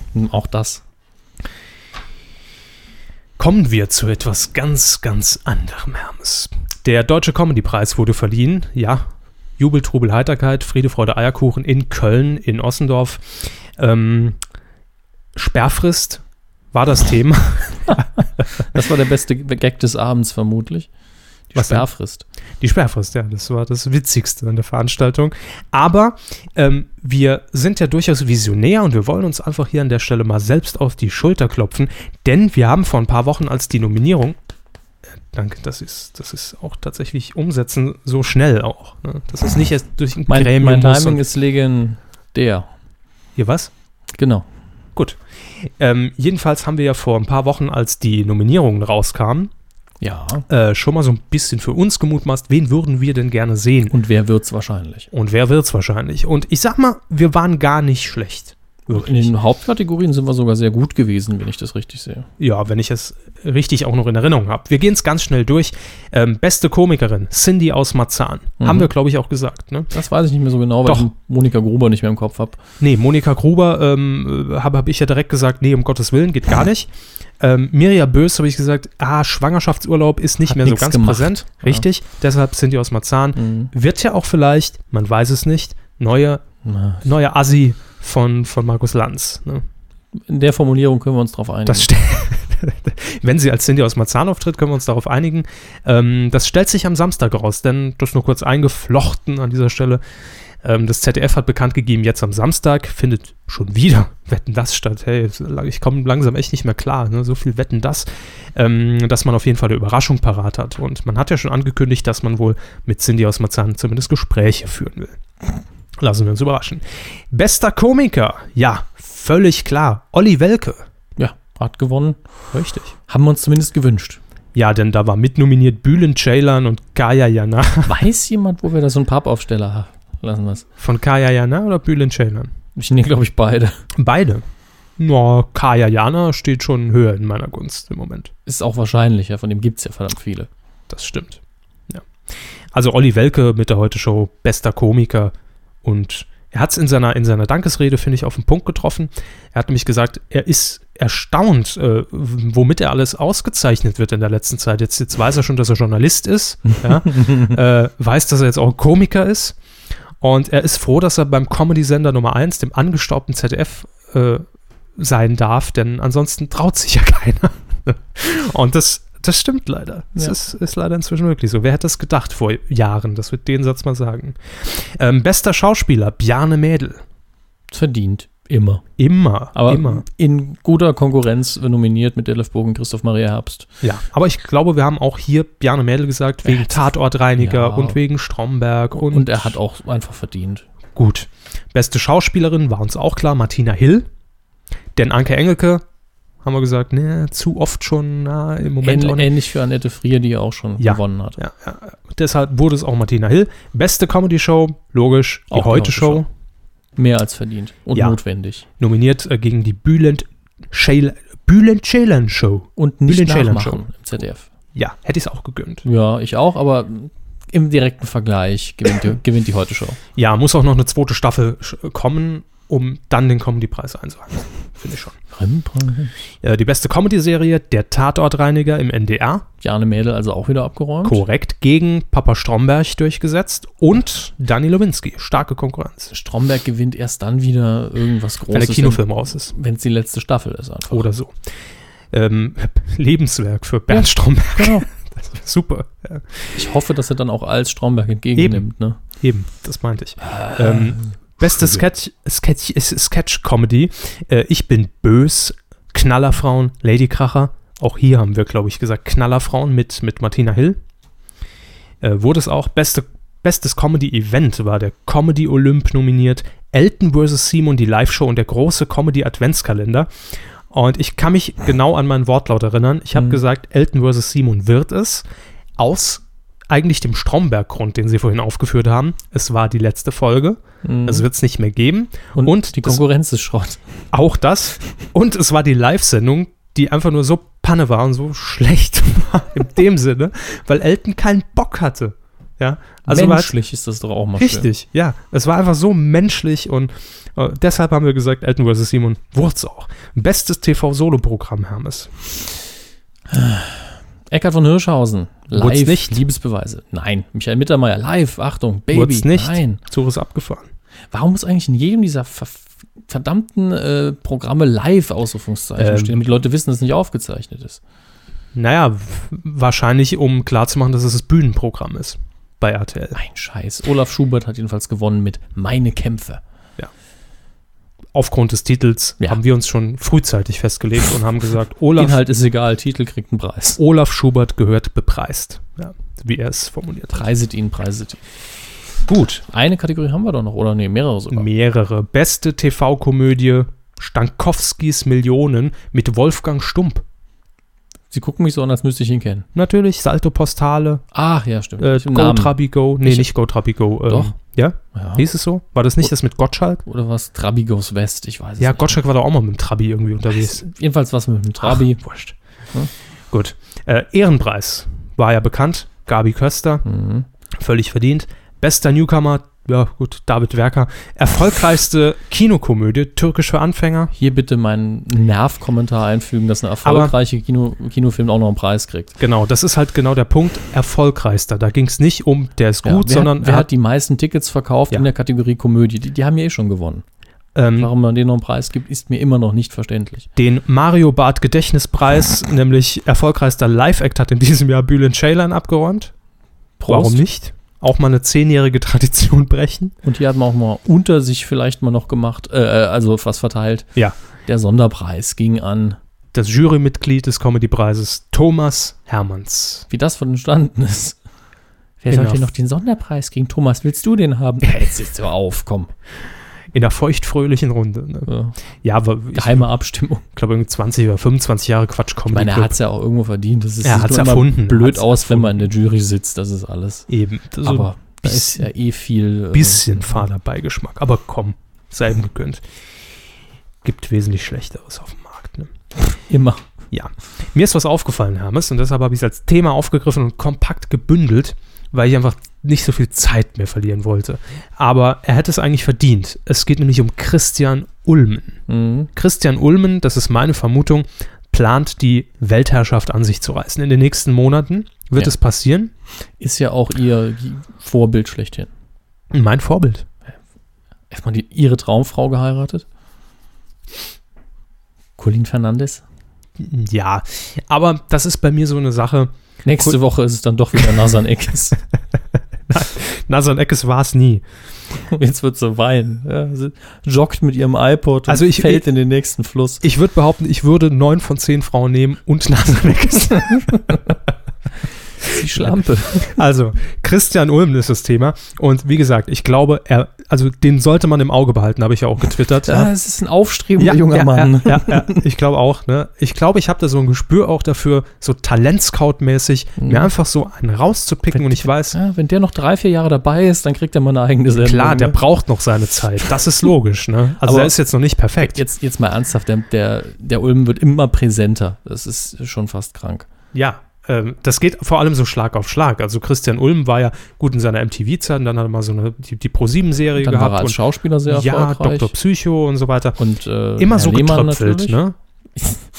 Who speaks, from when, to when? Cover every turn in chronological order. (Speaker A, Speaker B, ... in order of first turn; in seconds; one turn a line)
Speaker A: 0.1-0.8
Speaker B: 3.4-14.4
Speaker B: 15.4-18.6
Speaker A: 18.6-20.9
Speaker A: 21.5-22.2
Speaker B: 21.6-21.9
Speaker B: 22.6-34.4
Speaker B: 35.3-41.2
Speaker A: 40.3-42.7
Speaker B: 43.4-43.7
Speaker A: 44.2-44.5
Speaker B: 45.0-49.5
Speaker A: 50.0-50.5
Speaker B: 50.5-53.9
Speaker A: 53.9-55.1
Speaker B: 55.1-59.3
Speaker A: 58.9-62.3
Speaker B: 62.4-69.9
Speaker A: 68.6-68.9
Speaker A: 69.9-72.6
Speaker B: 72.8-86.4
Speaker A: 80.4-81.9
Speaker A: 83.4-83.7
Speaker A: 86.6-87.0
Speaker B: 87.0-89.7
Speaker A: 90.2-91.9
Speaker B: 91.7-100.0
Speaker B: 100.6-115.2
Speaker B: 116.0-120.9
Speaker A: 121.2-122.2
Speaker B: 122.5-123.0
Speaker A: 123.1-124.2
Speaker B: 124.5-128.0
Speaker A: 127.9-130.7
Speaker B: 130.8-132.5
Speaker A: 132.8-133.8
Speaker B: 133.9-134.4
Speaker B: 135.0-138.3
Speaker A: 138.5-140.5
Speaker B: 140.9-142.1
Speaker B: 142.7-145.3
Speaker B: 145.8-159.6
Speaker A: 156.9-157.6
Speaker B: 160.2-164.5
Speaker B: 165.0-177.0
Speaker A: 177.7-178.8
Speaker B: 179.0-180.1
Speaker A: 179.6-183.7
Speaker B: 183.8-189.6
Speaker A: 186.4-188.0
Speaker A: 188.9-190.7
Speaker B: 191.0-194.1
Speaker B: 195.0-195.8
Speaker B: 196.4-199.3
Speaker A: 198.8-201.4
Speaker B: 200.8-206.3
Speaker A: 205.5-206.2
Speaker A: 207.0-208.7
Speaker B: 207.9-208.2
Speaker B: 208.8-213.8
Speaker A: 212.8-214.5
Speaker B: 214.8-215.8
Speaker A: 215.8-220.0
Speaker B: 220.2-225.2
Speaker A: 225.3-226.1
Speaker B: 226.4-229.5
Speaker A: 229.6-231.2
Speaker B: 231.0-236.1
Speaker A: 236.1-241.1
Speaker B: 238.5-239.5
Speaker B: 240.9-241.3
Speaker B: 242.1-246.6
Speaker A: 243.9-244.9
Speaker A: 246.5-249.0
Speaker B: 248.3-248.7
Speaker B: 249.2-260.8
Speaker A: 250.2-251.8
Speaker B: 262.0-270.1
Speaker B: 270.7-275.2
Speaker A: 273.1-273.4
Speaker B: 275.8-283.0
Speaker A: 280.8-281.3
Speaker A: 282.4-283.8
Speaker B: 284.1-293.6
Speaker A: 293.1-294.7
Speaker B: 294.4-302.1
Speaker A: 303.3-309.8
Speaker B: 305.5-306.2
Speaker B: 308.9-310.7
Speaker A: 311.1-317.8
Speaker B: 315.8-316.2
Speaker B: 318.6-323.2
Speaker A: 323.1-326.4
Speaker B: 328.1-332.2
Speaker A: 332.0-333.8
Speaker B: 333.8-337.3
Speaker A: 337.1-338.2
Speaker B: 339.1-339.4
Speaker A: 339.4-341.5
Speaker B: 341.3-347.0
Speaker A: 348.1-349.5
Speaker B: 349.6-351.0
Speaker A: 351.1-353.3
Speaker B: 351.8-356.8
Speaker A: 354.1-354.3
Speaker A: 354.9-355.2
Speaker A: 356.8-359.0
Speaker B: 358.6-360.6
Speaker A: 360.4-362.0
Speaker B: 361.7-362.4
Speaker B: 363.3-366.8
Speaker A: 366.9-367.3
Speaker B: 367.6-374.1
Speaker A: 374.2-379.2
Speaker B: 376.8-377.2
Speaker B: 379.2-383.7
Speaker A: 382.8-387.1
Speaker B: 387.6-387.9
Speaker A: 387.8-390.3
Speaker B: 390.4-396.1
Speaker A: 396.8-397.2
Speaker B: 396.9-399.9
Speaker A: 400.0-403.9
Speaker A: 404.5-406.0
Speaker B: 406.3-409.9
Speaker A: 409.9-411.2
Speaker A: 412.0-415.9
Speaker B: 412.1-412.5
Speaker B: 416.7-418.3
Speaker A: 418.3-418.6
Speaker B: 418.8-419.7
Speaker A: 419.3-420.2
Speaker B: 420.3-422.8
Speaker A: 422.3-427.1
Speaker B: 423.8-425.7
Speaker B: 427.1-428.7
Speaker A: 427.6-430.2
Speaker B: 429.5-432.6
Speaker B: 433.8-435.7
Speaker A: 436.3-436.6
Speaker B: 436.9-448.6
Speaker A: 448.7-449.1
Speaker B: 449.1-455.9
Speaker A: 456.4-458.7
Speaker B: 459.3-460.1
Speaker A: 461.1-462.9
Speaker A: 465.2-466.0
Speaker B: 466.6-470.0
Speaker A: 469.6-471.8
Speaker B: 472.7-474.4
Speaker A: 475.0-479.8
Speaker B: 478.3-478.9
Speaker B: 479.8-484.1
Speaker A: 485.2-486.4
Speaker B: 485.2-485.7
Speaker B: 486.2-492.9
Speaker A: 492.6-495.2
Speaker B: 493.8-502.0
Speaker A: 499.8-500.1
Speaker A: 501.3-505.2
Speaker B: 504.6-508.6
Speaker A: 507.4-507.8
Speaker A: 508.4-513.3
Speaker B: 513.5-523.2
Speaker A: 520.2-522.1
Speaker A: 523.2-525.0
Speaker B: 523.8-525.1
Speaker A: 525.6-525.9